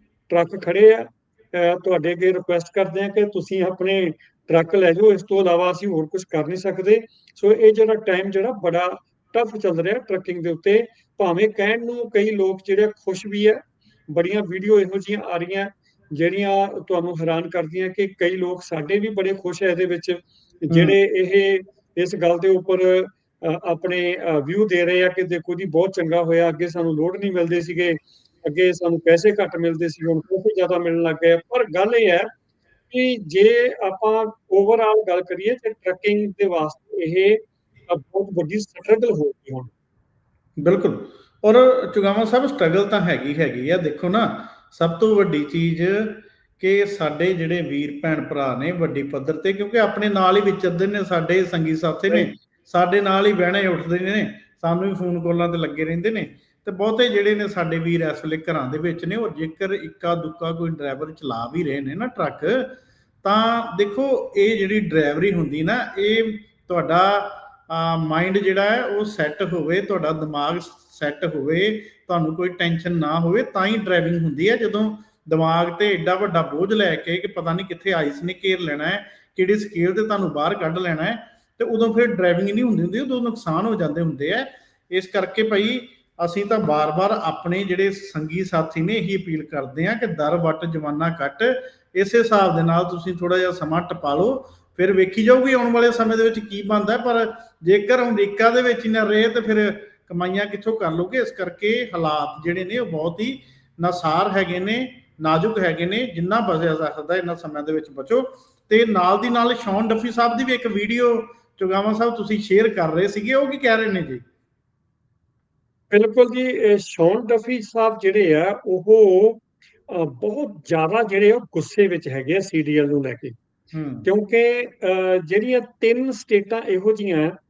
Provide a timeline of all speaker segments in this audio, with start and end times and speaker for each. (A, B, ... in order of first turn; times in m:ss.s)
0:00.3-0:32.3 A
0:20.7-0:21.0 B
0:32.9-0:39.7 A
0:40.6-1:54.2 B
1:55.9-2:03.3 A
2:03.7-2:04.1 B
2:04.0-2:07.3 A